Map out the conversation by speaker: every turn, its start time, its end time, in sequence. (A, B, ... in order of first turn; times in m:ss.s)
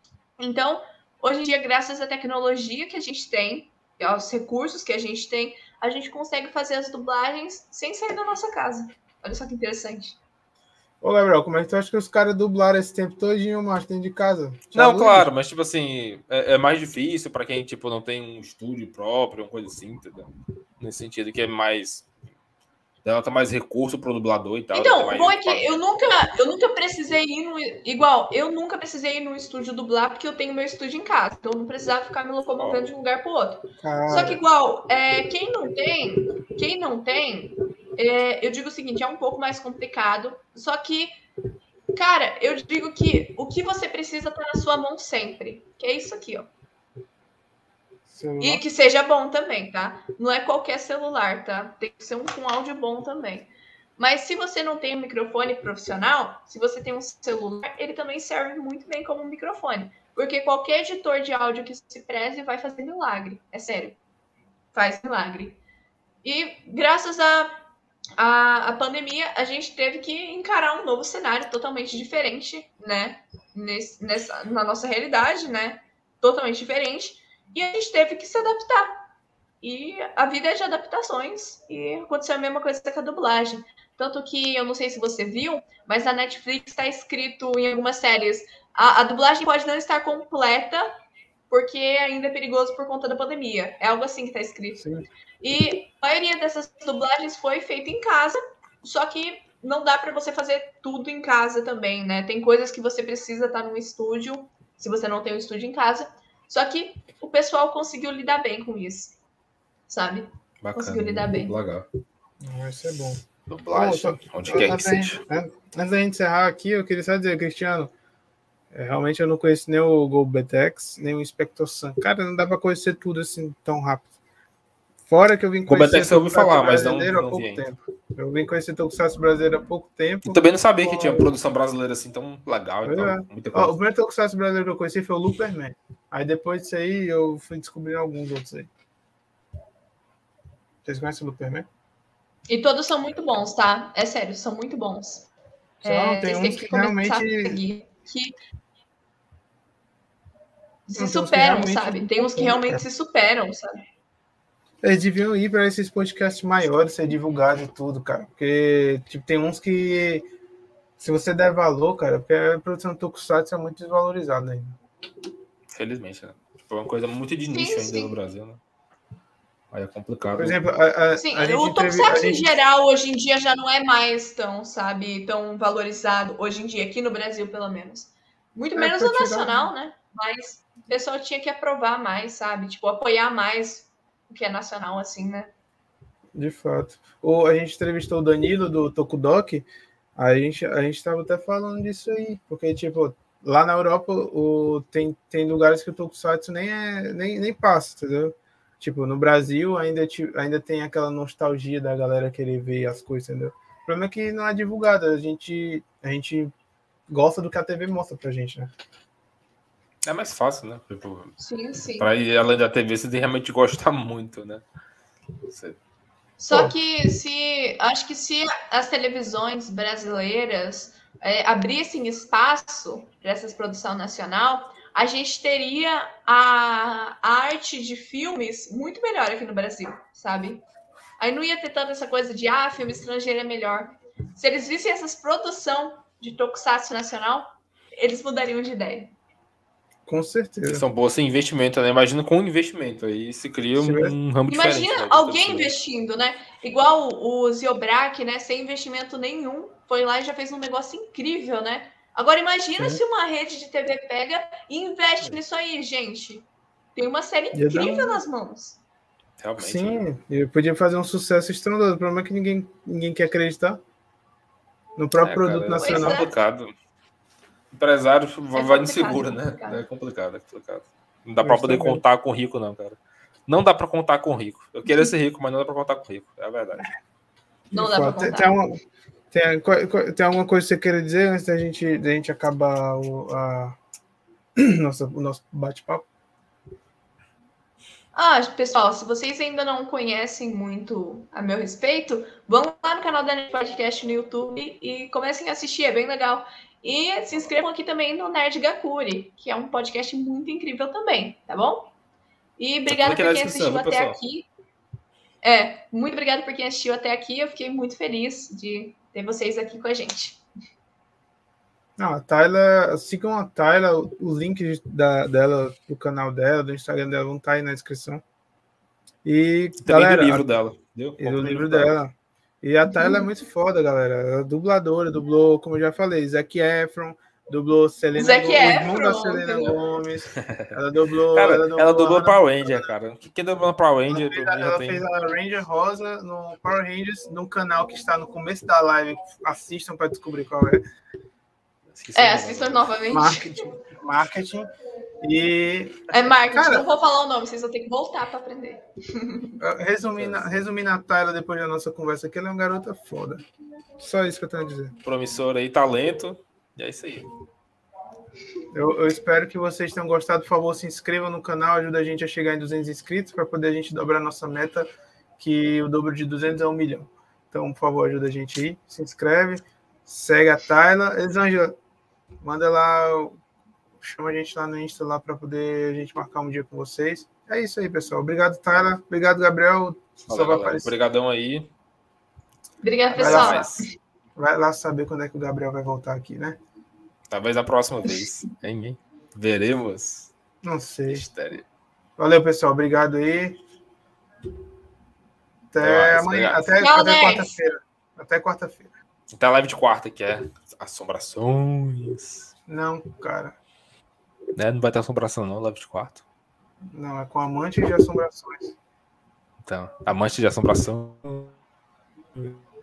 0:00.4-0:10.2 A
0:11.0-0:15.3 B
0:14.7-0:20.3 C
0:20.8-0:22.1 C
0:23.0-0:25.8 C
0:24.7-0:41.1 A
0:32.6-0:32.9 C
0:33.8-0:34.4 B
0:41.9-0:46.5 A
0:48.1-0:48.6 B
0:48.4-1:04.0 A
1:04.7-1:05.6 A
1:06.2-1:07.6 A
1:08.2-1:19.0 A
1:19.6-1:31.0 A
1:31.5-1:34.8 A
1:34.8-1:35.1 B
1:35.4-1:49.2 A
1:49.9-1:51.6 A
1:50.6-1:51.9 C
1:52.4-1:57.9 B
1:53.5-1:55.2 C
1:58.7-2:04.1 B
2:05.1-2:11.3 B
2:05.7-2:07.6 C
2:10.2-2:13.8 C
2:12.8-2:18.7 B
2:20.8-2:21.7 B
2:22.5-2:25.3 A
2:25.8-2:28.4 A
2:25.8-2:27.6 B
2:30.9-2:33.8 A
2:30.9-2:32.8 B
2:34.8-2:40.3 B
2:41.0-2:44.8 B
2:45.7-2:48.6 C
2:47.5-2:48.2 A
2:49.7-2:50.6 C
2:50.4-2:52.5 B
2:51.2-3:05.5 A
2:58.8-2:59.6 B
3:06.4-3:26.5 B
3:27.1-3:28.7 B
3:30.1-3:31.4 C
3:31.4-3:32.1 A
3:32.0-3:34.6 C
3:35.5-3:35.8 C
3:36.4-3:50.6 A
3:36.5-3:36.8 B
3:51.2-3:59.1 A
4:00.1-4:00.8 B
4:00.7-4:05.7 C
4:03.8-4:04.2 B
4:04.5-4:18.8 A
4:17.5-4:18.2 B
4:19.4-4:20.1 C
4:19.6-4:23.8 B
4:25.0-4:26.2 B
4:25.2-4:26.7 C
4:25.8-4:26.3 A
4:27.7-4:36.9 C
4:28.6-4:29.9 A
4:31.4-4:32.0 B
4:37.7-4:38.5 A
4:37.7-4:38.8 B
4:39.3-4:43.8 B
4:44.6-4:46.1 B
4:48.2-5:01.9 A
5:02.6-5:04.5 A
5:02.9-5:04.2 C
5:05.4-5:10.4 A
5:12.0-5:18.2 B
5:19.2-5:20.5 B
5:19.8-5:22.0 C
5:21.2-5:32.9 B
5:22.9-5:23.3 A
5:28.2-5:29.8 A
5:30.4-5:30.8 C
5:31.3-5:35.0 C
5:34.1-5:40.8 B
5:41.9-5:42.9 C
5:42.2-5:43.8 A
5:43.1-5:44.7 B
5:45.2-5:46.9 B
5:46.1-5:49.6 A
5:49.6-5:53.4 B
5:50.2-5:50.6 C
5:54.0-5:54.9 B
5:55.0-5:57.3 C
5:58.7-6:11.8 B
6:12.4-6:13.4 B
6:14.0-6:20.9 B
6:20.3-6:21.7 C
6:22.8-6:23.9 A
6:23.1-6:23.7 B
6:23.2-6:23.9 C
6:24.4-6:26.6 B
6:27.3-6:30.3 C
6:30.6-6:31.2 B
6:31.1-6:31.7 C
6:32.2-6:33.6 B
6:35.7-6:38.9 B
6:35.8-6:36.7 C
6:36.8-6:37.6 A
6:39.3-6:42.5 C
6:42.7-6:43.6 B
6:44.6-6:46.2 C
6:46.9-6:48.8 B
6:49.6-6:51.5 C